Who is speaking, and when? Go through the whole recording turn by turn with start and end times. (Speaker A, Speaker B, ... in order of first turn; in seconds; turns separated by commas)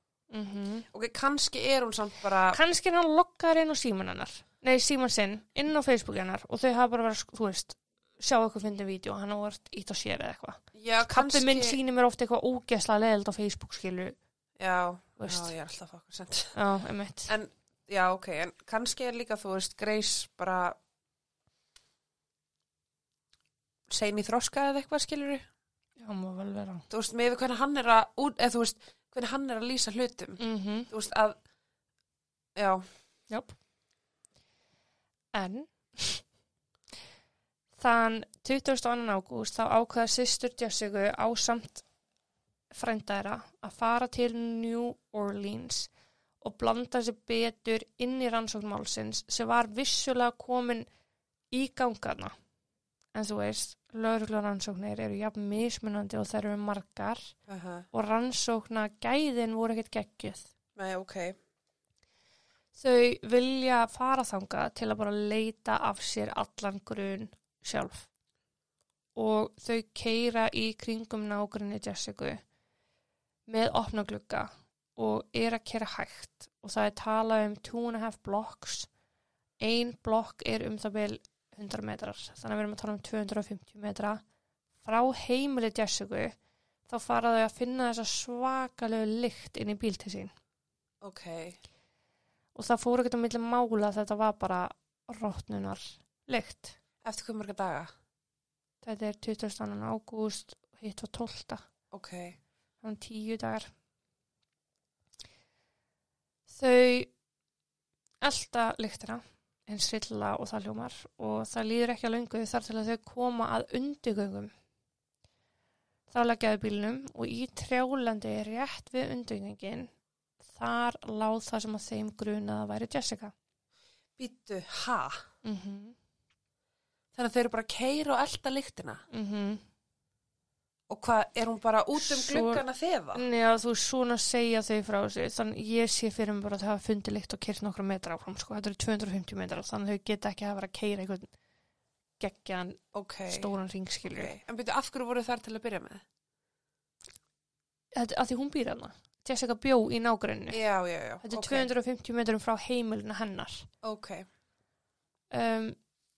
Speaker A: 0.3-0.9, Speaker B: 0.9-2.6, Speaker A: 2.5-14.2, Speaker B: 10.7-11.8, Speaker B: 14.6-16.6, Speaker A: 15.2-15.5, Speaker A: 16.5-17.3, Speaker B: 17.3-20.8, Speaker B: 23.9-25.4, Speaker A: 26.0-26.9, Speaker B: 26.9-31.4, Speaker A: 30.4-30.9, Speaker B: 32.5-32.8, Speaker A: 35.3-36.2, Speaker A: 37.8-41.8, Speaker A: 42.7-45.9, Speaker A: 46.4-50.9, Speaker A: 51.5-52.3, Speaker A: 53.1-57.3, Speaker B: 57.5-57.9, Speaker A: 57.9-60.5, Speaker B: 60.8-61.4, Speaker A: 62.7-68.1, Speaker A: 69.2-72.4, Speaker A: 73.5-78.9, Speaker A: 79.6-84.2, Speaker A: 84.8-86.3, Speaker A: 86.9-90.3, Speaker B: 91.0-91.6, Speaker A: 92.5-96.8, Speaker B: 97.0-97.9, Speaker A: 98.8-101.6, Speaker B: 101.9-102.4, Speaker A: 102.8-103.7, Speaker A: 106.5-107.1, Speaker A: 108.2-114.5, Speaker A: 116.1-119.9, Speaker A: 120.5-123.3, Speaker B: 124.2-125.2, Speaker A: 125.4-126.0, Speaker B: 127.1-129.0, Speaker A: 129.1-129.6, Speaker B: 130.9-133.2, Speaker A: 131.9-132.6, Speaker A: 133.1-141.3, Speaker A: 142.2-144.3, Speaker B: 142.9-143.5, Speaker B: 144.1-146.0, Speaker A: 147.9-150.6, Speaker B: 150.5-151.7, Speaker A: 151.2-153.7, Speaker B: 153.8-154.2, Speaker A: 155.3-155.8